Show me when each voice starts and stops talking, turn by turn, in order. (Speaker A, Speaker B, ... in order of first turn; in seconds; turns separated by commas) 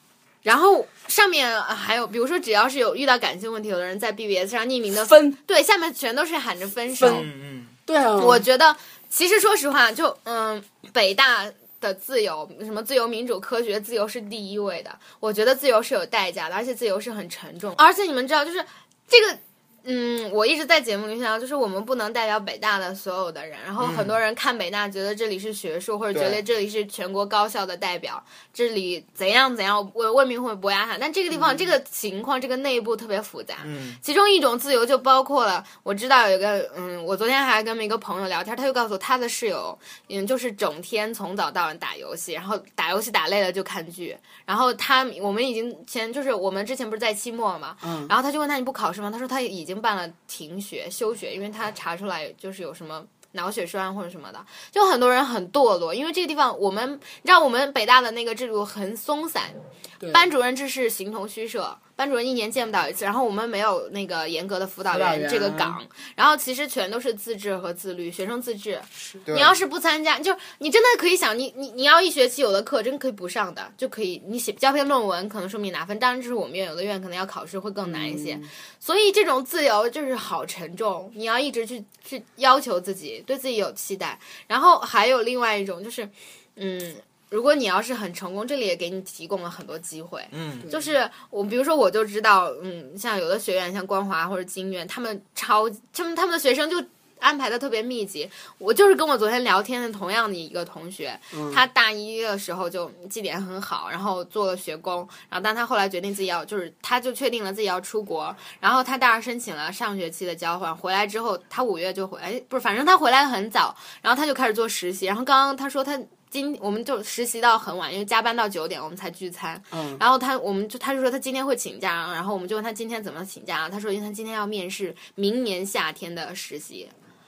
Speaker A: 0.4-7.3, Speaker B: 5.0-5.4, Speaker B: 7.0-7.2, Speaker C: 7.1-7.7, Speaker B: 7.9-8.4, Speaker A: 8.2-59.6, Speaker C: 23.8-24.1, Speaker C: 26.1-26.4, Speaker C: 33.6-34.0, Speaker B: 47.8-48.1, Speaker B: 60.0-60.2, Speaker A: 60.1-126.9, Speaker B: 64.9-65.8, Speaker C: 69.2-69.5, Speaker B: 77.8-78.5, Speaker C: 90.3-90.7, Speaker B: 101.3-101.6, Speaker B: 119.7-120.0